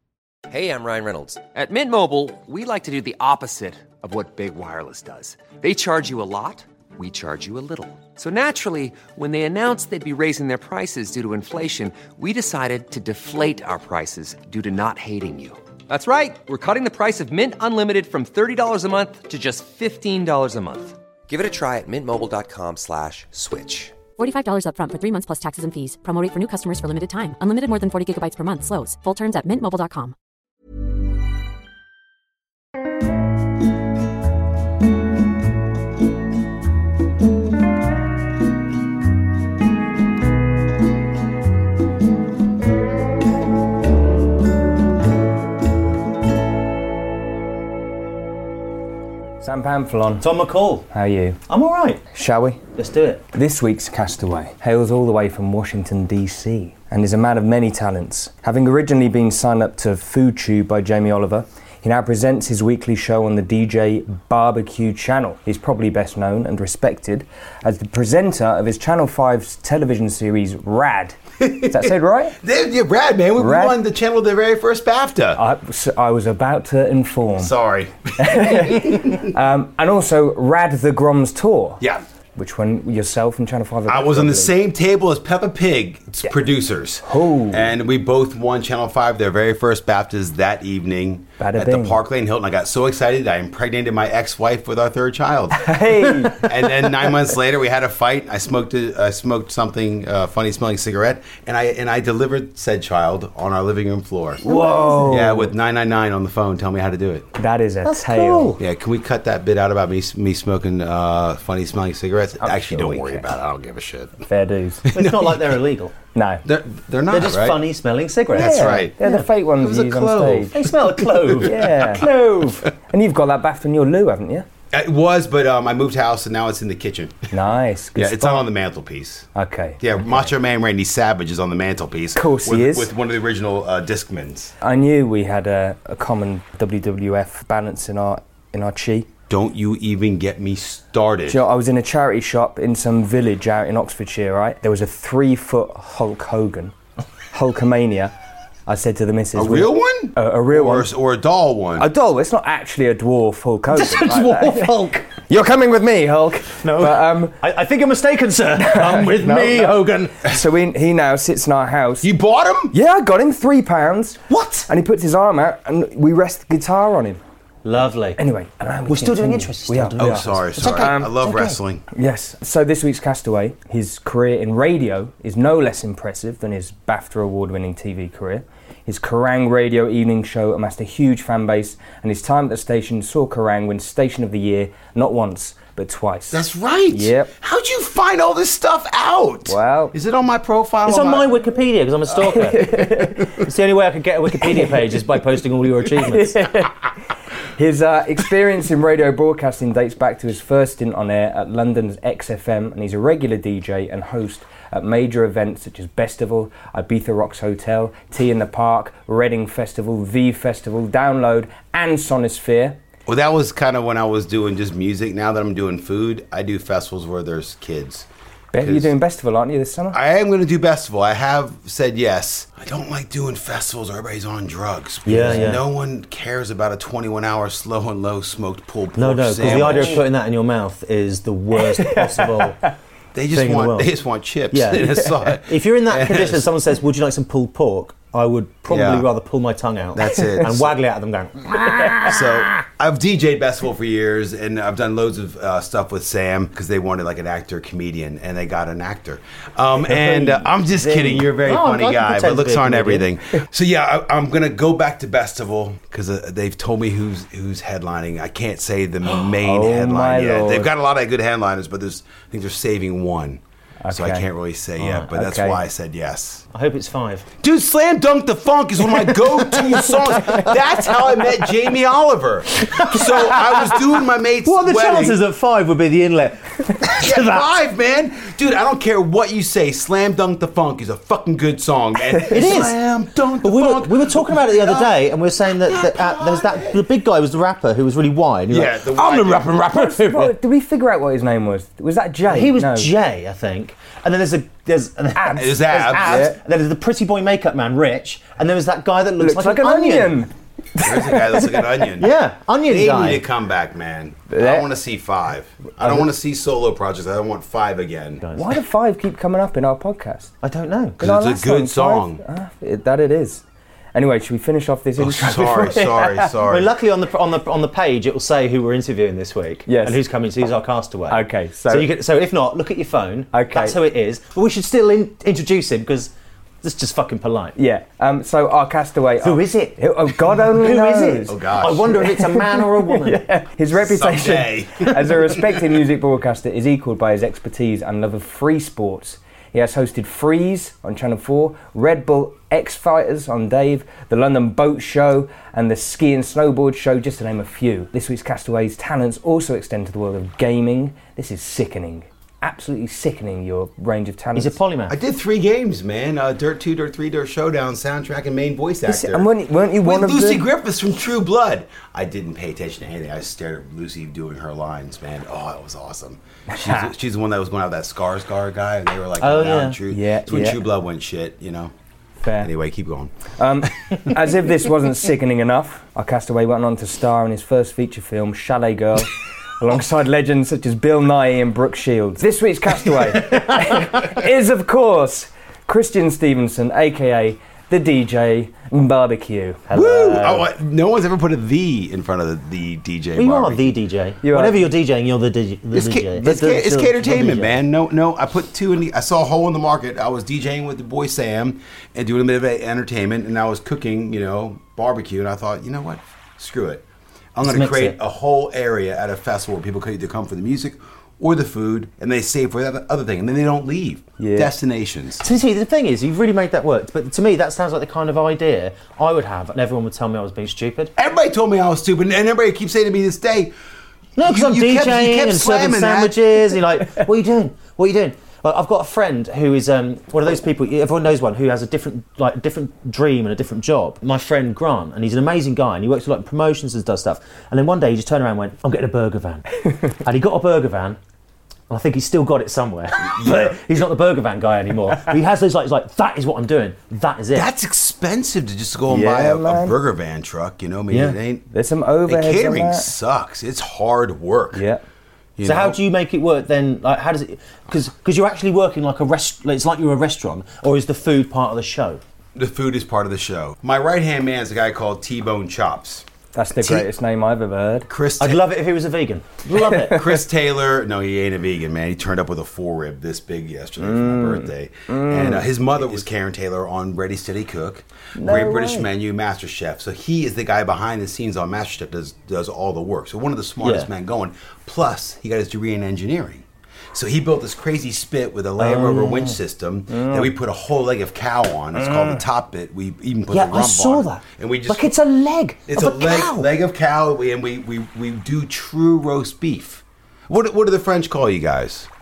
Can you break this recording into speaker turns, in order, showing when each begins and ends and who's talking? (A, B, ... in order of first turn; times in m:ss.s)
0:00.5-0:24.0 A
0:24.2-0:30.1 B
0:49.4-0:50.3 C
0:50.2-0:50.9 D
0:50.9-0:51.4 C
0:51.5-0:52.0 D
0:52.1-0:52.6 C
0:52.8-0:53.2 D
0:53.3-1:12.4 C
1:11.4-1:15.4 E
1:13.4-1:13.8 C
1:15.4-1:17.5 C
1:17.4-1:19.3 E
1:18.2-1:21.8 C
1:22.4-1:24.5 C
1:23.9-1:44.5 E
1:27.0-1:27.7 C
1:31.4-1:32.0 C
1:35.6-1:36.5 C
1:44.4-1:45.5 C
1:44.5-1:45.1 D
1:45.0-1:47.3 E
1:47.4-1:48.6 C
1:47.8-1:48.6 D
1:48.6-1:54.2 E
1:52.4-1:53.3 C
1:54.3-1:54.9 C
1:54.9-1:55.6 E
1:54.9-1:56.0 D
1:56.1-1:56.4 C
1:56.4-1:57.7 E
1:57.1-1:59.3 D
1:58.3-1:59.0 E
1:58.3-2:00.6 C
1:59.6-2:02.2 E
2:00.5-2:02.7 D
2:01.4-2:02.1 C
2:02.8-2:04.5 C
2:04.7-2:07.3 E
2:07.3-2:08.5 C
2:08.0-2:09.3 E
2:09.3-2:10.3 C
2:09.8-2:14.5 E
2:12.2-2:12.9 C
2:14.6-2:19.1 C
2:19.3-2:21.4 E
2:21.3-2:26.8 C
2:27.3-2:28.1 C
2:28.7-2:30.9 C
2:29.3-2:31.9 E
2:31.8-2:37.4 C
2:33.7-2:35.1 D
2:36.6-2:40.2 D
2:38.6-2:42.1 C
2:42.0-2:42.8 E
2:42.7-2:47.2 C
2:44.3-2:44.7 D
2:47.6-2:48.2 D
2:48.2-2:51.1 C
2:48.9-2:51.6 D
2:50.0-2:51.8 E
2:51.9-3:07.3 C
3:06.3-3:11.4 E
3:09.5-3:09.9 C
3:10.9-3:16.4 D
3:12.5-3:13.4 C
3:14.5-3:14.8 C
3:16.1-3:16.9 C
3:17.6-3:32.8 C
3:33.1-3:38.9 E
3:38.5-3:40.0 C
3:39.9-3:50.0 E
3:45.1-3:45.6 D
3:49.0-3:52.6 D
3:49.4-3:50.0 C
3:51.7-3:52.5 C
3:53.1-3:56.5 E
3:53.3-3:53.9 D
3:54.5-4:02.4 D
3:58.7-3:59.1 E
3:59.9-4:00.8 E
4:02.1-4:26.4 E
4:10.0-4:11.2 C
4:11.3-4:13.1 D
4:19.2-4:20.7 C
4:23.8-4:24.3 C
4:24.8-4:25.1 D
4:25.1-4:25.6 C
4:26.5-4:27.3 D
4:27.4-4:35.2 E
4:29.3-4:30.5 D
4:32.7-4:33.8 D
4:34.4-4:37.4 D
4:36.8-4:45.0 E
4:42.3-4:42.8 D
4:43.4-4:50.4 D
4:45.6-4:46.8 E
4:48.5-4:49.7 E
4:49.7-4:52.9 C
4:52.3-5:00.2 D
4:55.2-4:56.4 C
4:55.3-4:56.3 E
4:59.2-5:01.8 C
5:00.8-5:08.2 E
5:01.9-5:03.2 D
5:04.3-5:04.7 C
5:08.2-5:08.5 D
5:08.3-5:10.3 C
5:10.4-5:11.0 D
5:11.0-5:13.4 C
5:11.0-5:12.2 E
5:13.9-5:16.2 C
5:15.0-5:16.8 E
5:15.5-5:26.1 D
5:19.7-5:20.0 C
5:21.1-5:21.9 C
5:23.3-5:23.8 C
5:26.6-5:27.6 D
5:27.6-5:31.4 C
5:29.2-5:33.2 D
5:31.3-5:32.1 E
5:31.9-5:54.6 C
5:33.7-5:35.4 E
5:54.3-5:54.9 D
5:54.9-6:11.7 E
5:58.9-6:00.4 C
6:06.5-6:06.8 C
6:09.2-6:09.8 D
6:09.9-6:10.6 C
6:12.2-6:12.5 C
6:12.4-6:14.0 E
6:13.4-6:29.7 C
6:29.7-6:30.4 D
6:29.7-6:33.8 E
6:33.2-6:37.6 D
6:34.2-6:34.7 C
6:35.7-6:46.8 E
6:47.4-6:55.2 E
6:47.4-6:48.0 D
6:54.2-6:54.5 C
6:55.2-7:00.9 D
7:01.0-7:03.5 E
7:04.2-7:21.0 D
7:04.2-7:06.6 E
7:21.7-7:27.5 D
7:23.0-7:23.6 E
7:27.3-7:31.5 E
7:28.9-7:29.8 C
7:30.9-7:31.2 D
7:31.5-7:32.9 C
7:32.1-7:34.6 E
7:34.5-7:34.8 C
7:35.4-7:35.8 E
7:35.4-7:42.0 D
7:42.4-7:46.9 E
7:46.3-7:47.9 C
7:47.9-7:48.5 E
7:48.2-7:50.1 D
7:49.8-8:14.9 E
7:53.8-7:55.5 C
7:58.2-7:58.9 C
8:03.6-8:03.9 D
8:08.6-8:09.3 D
8:09.9-8:10.4 C
8:11.8-8:12.2 C
8:13.3-8:16.5 D
8:15.7-8:21.9 E